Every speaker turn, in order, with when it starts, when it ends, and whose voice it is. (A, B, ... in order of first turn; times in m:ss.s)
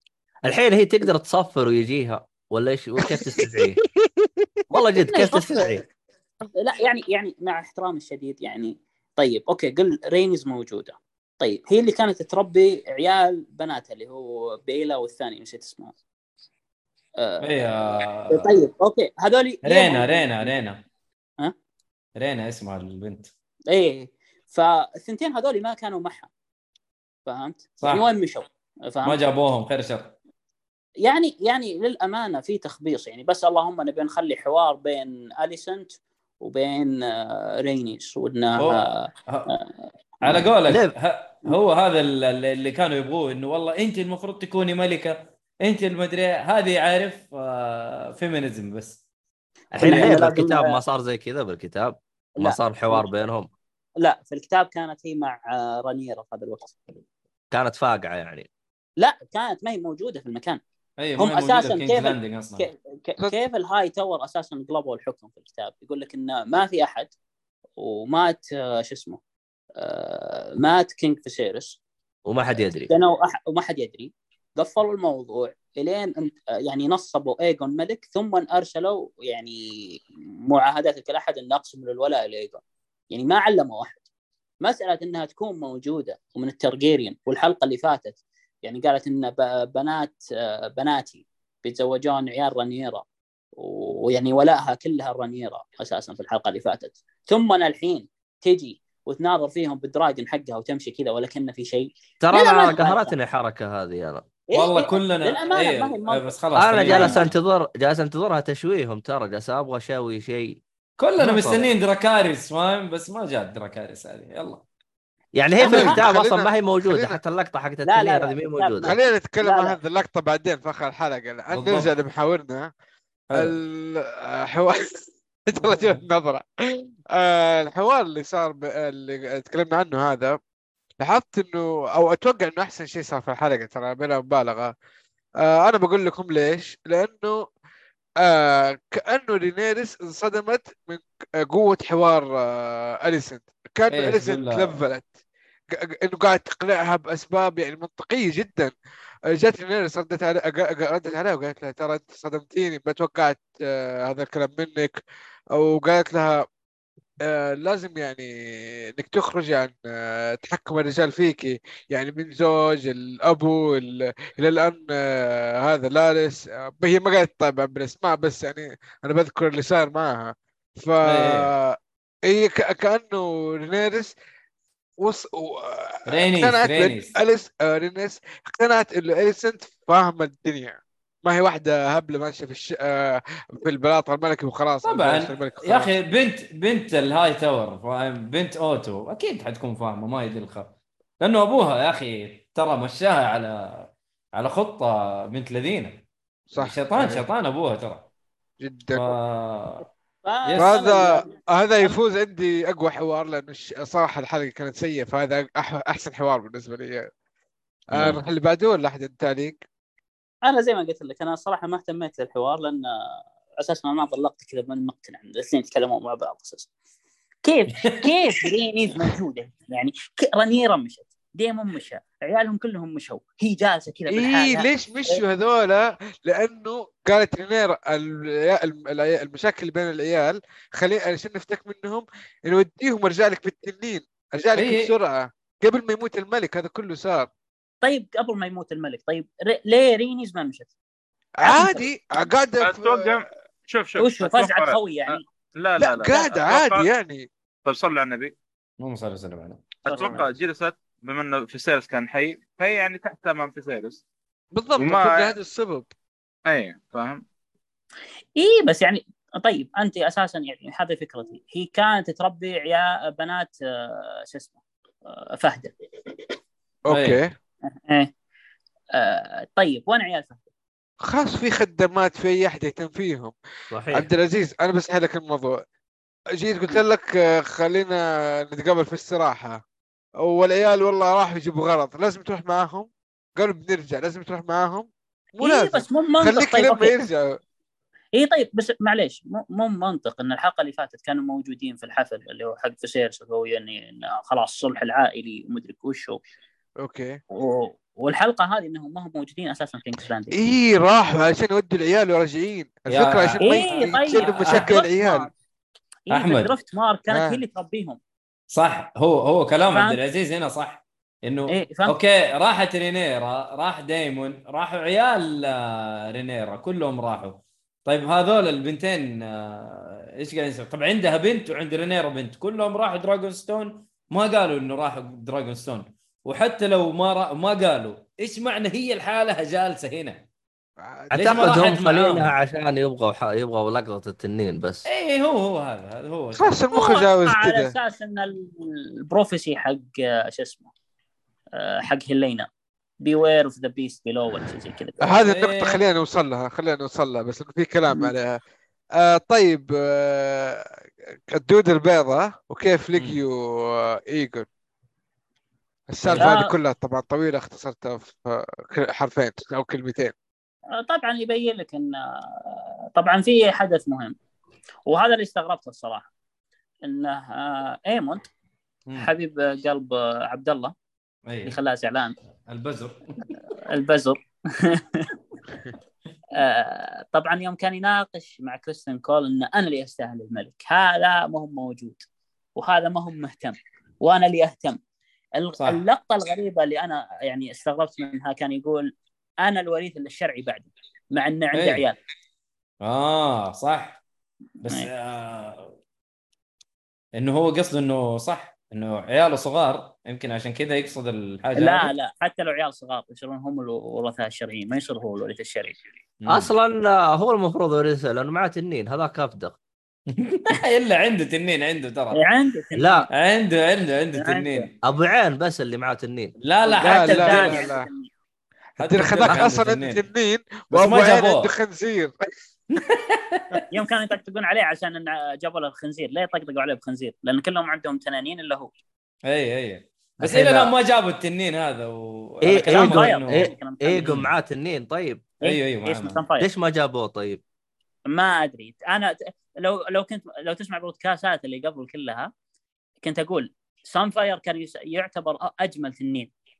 0:00.4-0:03.8 A
0:03.1-0:04.5 B
0:04.7-0:05.8 A
0:05.0-0:05.7 C
0:06.6-0:15.9 C
0:17.2-0:20.5 C
0:17.4-0:18.5 D
0:19.6-0:20.8 D
0:22.2-0:23.3 D
0:23.7-0:26.3 C
0:27.3-0:29.2 C
0:27.8-0:28.1 D
0:29.0-0:30.1 D
0:31.0-0:39.7 C
0:38.6-0:39.5 D
0:40.2-0:49.0 D
0:40.7-0:40.9 A
0:49.7-0:53.5 A
0:49.8-0:50.8 C
0:49.8-0:50.1 D
0:52.4-0:53.1 C
0:54.0-0:56.8 C
0:57.5-0:58.5 A
0:59.0-1:00.6 C
1:01.0-1:02.7 D
1:01.2-1:07.1 C
1:07.8-1:09.2 C
1:09.8-1:11.8 C
1:12.3-1:12.9 A
1:12.9-1:24.0 C
1:24.6-1:33.0 C
1:33.6-1:43.1 C
1:42.2-1:44.3 A
1:44.5-1:47.3 C
1:44.5-1:47.3 D
1:46.6-1:50.6 A
1:51.0-1:54.6 D
1:51.2-1:51.7 A
1:55.4-1:59.0 A
1:55.6-1:56.0 C
1:55.6-1:57.2 B
1:57.8-1:59.8 C
1:58.8-2:02.7 B
2:01.5-2:01.9 D
2:03.3-2:03.6 D
2:03.3-2:10.4 B
2:05.7-2:06.0 D
2:11.0-2:14.7 B
2:15.4-2:17.4 B
2:18.2-2:25.1 B
2:23.9-2:24.8 D
2:25.7-2:28.7 B
2:29.3-2:35.0 B
2:35.5-2:36.5 B
2:37.2-2:54.1 B
2:51.0-2:51.5 D
2:55.0-3:05.9 B
2:56.1-2:57.2 D
3:04.8-3:16.0 D
3:16.5-3:17.3 B
3:16.6-3:18.1 D
3:18.6-3:19.2 B
3:18.9-3:19.9 D
3:20.2-3:22.0 C
3:20.6-3:27.1 B
3:27.9-3:29.6 B
3:27.9-3:28.2 A
3:30.4-3:36.7 C
3:37.4-3:45.2 C
3:37.8-3:38.5 D
3:44.1-3:57.3 B
3:54.6-3:54.9 D
3:57.8-4:00.7 C
4:01.4-4:03.2 B
4:01.4-4:01.9 C
4:02.6-4:06.9 E
4:04.0-4:05.2 C
4:05.8-4:07.3 B
4:07.6-4:08.4 E
4:08.8-4:09.8 D
4:09.8-4:14.0 E
4:09.9-4:10.2 C
4:14.5-4:15.9 B
4:14.8-4:15.4 E
4:16.5-4:17.2 E
4:18.4-4:25.7 C
4:26.9-4:27.3 B
4:26.9-4:27.2 D
4:27.8-4:28.1 C
4:28.9-4:30.4 C
4:31.0-4:33.4 B
4:33.7-4:34.1 A
4:33.9-4:35.6 B
4:36.4-4:39.6 B
4:40.2-4:47.4 B
4:45.4-4:47.0 C
4:48.2-4:56.2 C
4:56.8-4:57.2 B
4:57.3-5:00.4 C
5:00.3-5:05.3 B
5:02.9-5:04.8 D
5:03.4-5:05.3 C
5:06.1-5:08.0 C
5:06.1-5:06.5 D
5:07.1-5:07.4 B
5:08.5-5:30.2 D
5:09.7-5:10.0 C
5:11.5-5:12.0 C
5:30.8-5:31.6 B
5:31.1-5:32.3 D
5:31.1-5:34.9 A
5:34.9-5:36.6 D
5:36.4-5:37.8 B
5:36.7-5:40.7 C
5:41.6-5:42.5 C
5:43.0-5:45.2 C
5:45.0-5:48.4 B
5:45.2-5:45.8 D
5:49.0-5:54.5 B
5:53.0-5:53.2 D
5:55.9-6:00.1 B
5:56.0-5:56.3 D
5:56.2-5:56.5 C
6:00.8-6:04.2 C
6:04.9-6:06.1 C
6:06.8-6:08.2 C
6:09.0-6:10.7 C
6:11.3-6:11.6 D
6:11.5-6:12.2 C
6:12.5-6:13.2 D
6:13.6-6:15.1 C
6:16.4-6:22.0 C
6:22.6-6:24.8 C
6:25.4-6:32.0 C
6:31.5-6:31.8 D
6:32.8-6:34.0 D
6:34.6-6:35.7 D
6:37.2-6:41.9 D
6:41.6-6:45.8 C
6:46.2-6:46.5 D
6:46.3-6:49.6 A
6:50.1-6:52.2 D
6:52.1-6:53.1 C
6:52.8-6:53.1 A
6:53.1-6:54.7 D
6:54.2-6:54.7 C
6:54.8-6:56.4 A
6:56.4-6:57.6 D
6:56.6-6:58.0 C
6:56.8-6:57.9 B
6:58.8-7:00.0 D
6:58.8-7:02.1 B
7:00.7-7:01.5 D
7:02.7-7:03.6 D
7:03.7-7:08.7 C
7:09.3-7:13.5 D
7:10.2-7:10.7 A
7:12.4-7:15.3 A
7:12.6-7:14.2 C
7:14.0-7:14.3 D
7:15.4-7:16.5 C
7:15.4-7:16.2 D
7:16.4-7:17.4 A
7:18.1-7:22.3 C
7:23.0-7:26.3 C